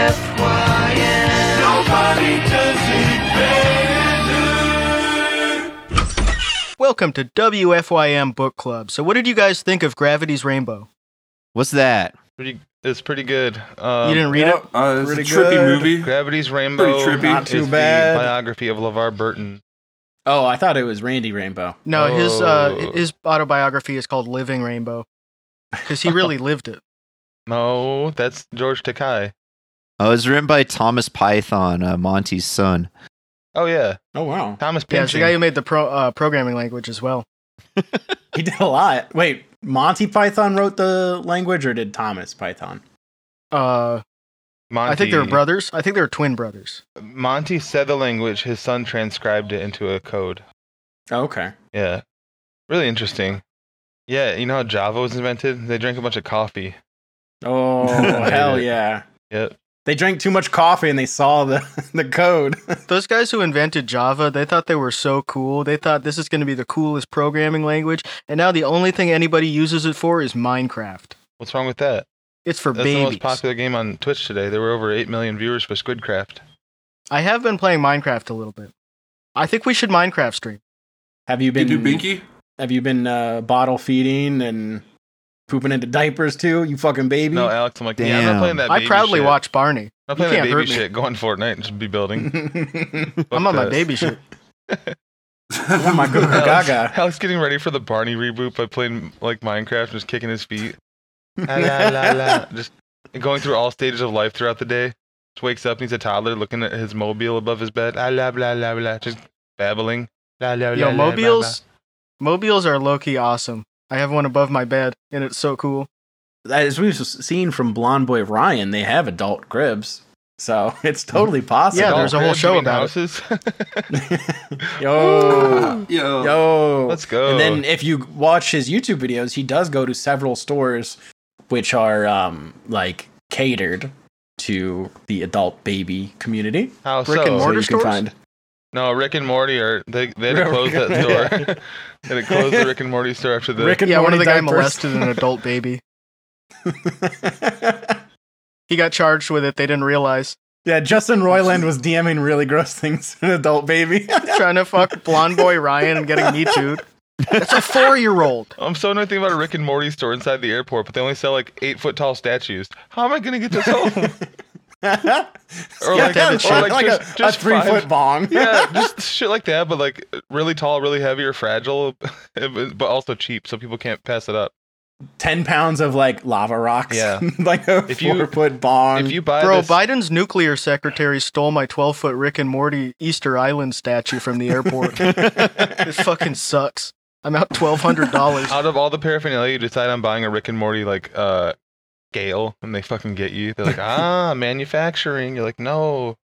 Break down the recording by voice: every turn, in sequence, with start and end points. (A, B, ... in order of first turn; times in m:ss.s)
0:06.8-0:10.9 A
0:11.5-0:12.1 B
0:12.4-0:14.3 C
0:14.0-0:14.7 A
0:14.4-0:16.1 D
0:15.0-0:15.9 E
0:16.0-0:19.6 C
0:16.7-0:17.5 D
0:17.2-0:18.3 E
0:20.2-0:21.8 E
0:21.8-0:25.0 A
0:21.9-0:23.0 C
0:25.8-0:26.8 A
0:27.5-0:29.3 C
0:30.0-0:32.9 B
0:33.5-0:34.0 C
0:34.1-0:34.6 E
0:34.6-0:35.4 C
0:34.9-0:37.2 A
0:38.3-0:42.8 E
0:43.5-0:44.0 A
0:44.7-0:45.4 C
0:44.8-0:46.8 A
0:47.0-0:50.4 C
0:51.1-0:51.5 E
0:51.7-0:52.0 C
0:52.7-0:53.4 C
0:54.1-0:56.8 C
0:57.4-0:59.0 E
0:57.9-0:58.1 D
0:58.1-0:58.7 C
0:59.3-0:59.6 C
0:59.8-1:02.8 E
1:02.9-1:11.1 A
1:11.4-1:12.1 C
1:12.4-1:13.4 A
1:12.7-1:16.4 C
1:17.1-1:18.7 A
1:19.4-1:20.6 A
1:21.3-1:22.1 E
1:21.5-1:22.2 D
1:22.6-1:24.8 E
1:25.5-1:27.5 E
1:27.3-1:29.4 C
1:28.0-1:28.6 B
1:28.7-1:30.8 A
1:30.1-1:32.4 C
1:32.2-1:33.1 E
1:33.2-1:33.9 C
1:33.3-1:34.2 A
1:35.7-1:36.4 D
1:35.8-1:36.9 E
1:36.2-1:40.8 C
1:41.4-1:51.6 C
1:41.5-1:42.4 E
1:50.7-1:51.6 A
1:52.2-1:55.9 A
1:56.4-2:02.2 E
2:01.7-2:02.9 A
2:01.7-2:03.9 C
2:03.9-2:11.0 E
2:04.9-2:05.8 C
2:05.3-2:06.4 D
2:06.8-2:07.6 C
2:11.5-2:16.7 E
2:16.8-2:17.5 C
2:17.0-2:18.0 A
2:17.3-2:18.1 E
2:18.7-2:23.8 C
2:20.3-2:21.4 E
2:22.3-2:22.7 E
2:23.6-2:25.2 E
2:23.8-2:25.8 A
2:26.6-2:28.0 E
2:28.7-2:30.4 A
2:30.6-2:36.7 E
2:34.2-2:36.8 A
2:37.3-2:38.5 A
2:38.6-2:44.2 C
2:43.5-2:43.9 E
2:44.8-2:48.8 E
2:45.8-2:54.5 C
2:45.9-2:46.8 A
2:55.2-2:59.2 E
2:56.9-2:57.2 C
2:57.9-2:58.3 C
2:58.9-2:59.8 C
2:59.4-3:05.1 A
3:05.0-3:05.9 E
3:05.8-3:08.6 A
3:08.5-3:11.5 C
3:12.1-3:16.2 C